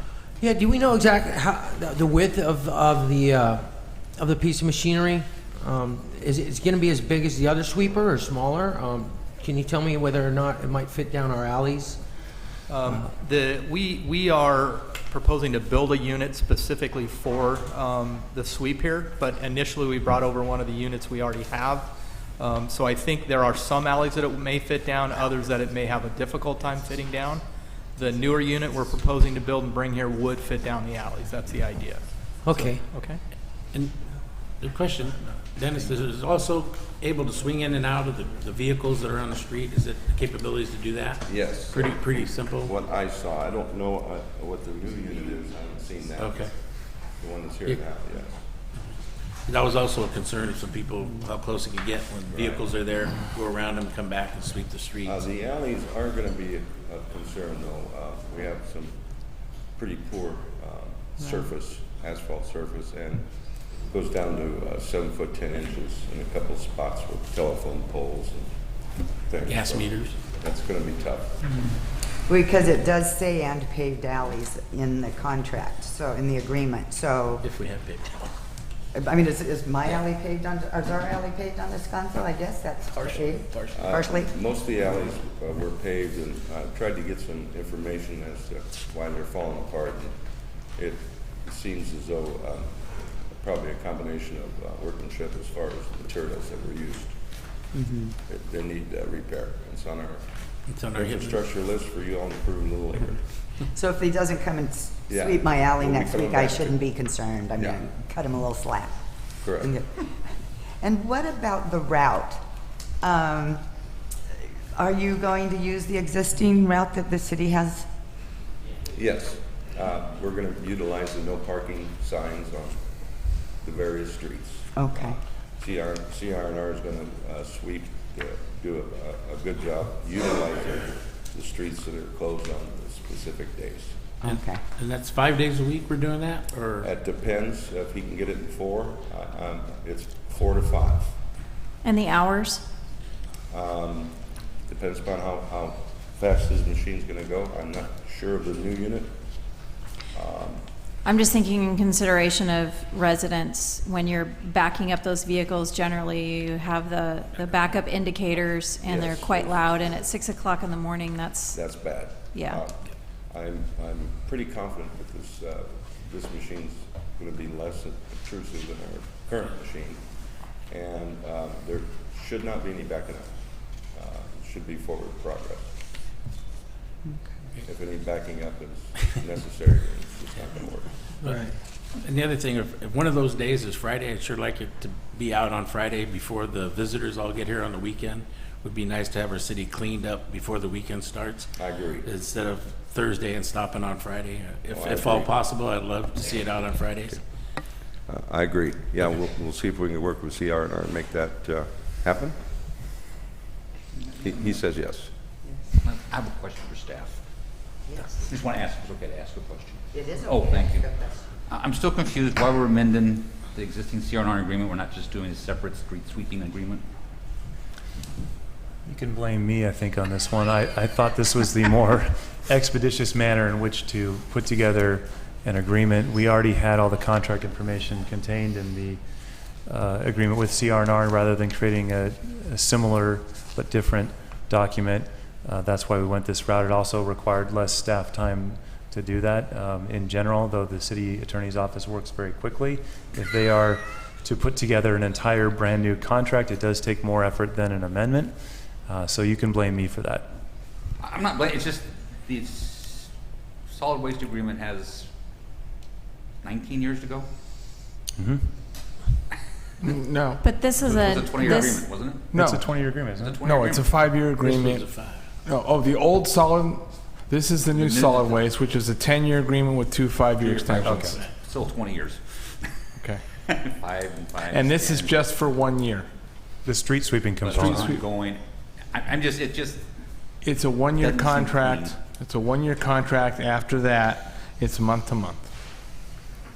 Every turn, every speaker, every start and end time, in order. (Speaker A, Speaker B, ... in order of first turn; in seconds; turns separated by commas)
Speaker A: 0.4-3.6, Speaker A: 4.2-12.0, Speaker B: 12.7-33.2, Speaker A: 32.5-32.8, Speaker C: 33.7-34.0, Speaker C: 34.6-42.7, Speaker D: 41.3-48.4, Speaker C: 46.2-46.5, Speaker C: 49.5-55.2, Speaker D: 52.3-52.7, Speaker D: 55.0-59.0, Speaker D: 59.7-68.5, Speaker D: 69.1-71.4, Speaker C: 69.5-70.2, Speaker E: 72.2-77.5, Speaker C: 77.4-78.3, Speaker E: 78.9-84.3, Speaker C: 82.9-83.8, Speaker D: 83.7-97.6, Speaker D: 98.3-103.2, Speaker C: 100.7-101.4, Speaker E: 103.7-109.0, Speaker D: 105.1-106.8, Speaker D: 107.6-107.9, Speaker D: 109.4-109.8, Speaker E: 109.6-112.4, Speaker E: 113.0-113.6, Speaker E: 114.7-117.9, Speaker D: 118.9-124.8, Speaker E: 124.7-125.2, Speaker D: 125.6-134.0, Speaker E: 134.2-134.6, Speaker C: 134.2-136.9, Speaker D: 136.8-141.2, Speaker F: 141.8-142.7, Speaker D: 143.5-150.7, Speaker F: 151.0-161.8, Speaker D: 158.8-160.1, Speaker D: 161.5-170.2, Speaker F: 162.3-162.6, Speaker D: 170.7-175.8, Speaker D: 177.6-181.0, Speaker C: 181.2-191.5, Speaker D: 191.6-192.1, Speaker C: 192.0-197.2, Speaker D: 194.7-195.3, Speaker D: 198.1-202.4, Speaker G: 204.2-204.6, Speaker D: 204.2-205.1, Speaker E: 205.4-205.8, Speaker G: 205.8-207.2, Speaker E: 207.9-208.3, Speaker G: 208.2-210.9, Speaker E: 209.9-211.2, Speaker G: 211.5-216.8, Speaker H: 218.9-229.0, Speaker H: 229.7-248.3, Speaker H: 248.9-250.3, Speaker G: 251.0-253.1, Speaker G: 253.7-255.1, Speaker G: 256.4-257.3, Speaker I: 259.8-260.4, Speaker F: 260.4-261.9, Speaker G: 260.8-262.3, Speaker I: 262.3-262.6, Speaker H: 262.3-263.4, Speaker G: 263.1-264.0, Speaker I: 263.4-264.9, Speaker C: 264.4-265.3, Speaker I: 265.4-271.1, Speaker G: 267.6-268.6, Speaker G: 270.4-272.7, Speaker H: 270.8-271.2, Speaker G: 273.5-275.2, Speaker I: 274.5-276.1, Speaker H: 276.6-277.9, Speaker G: 277.4-279.9, Speaker I: 277.6-278.0, Speaker I: 280.4-285.5, Speaker G: 281.0-282.0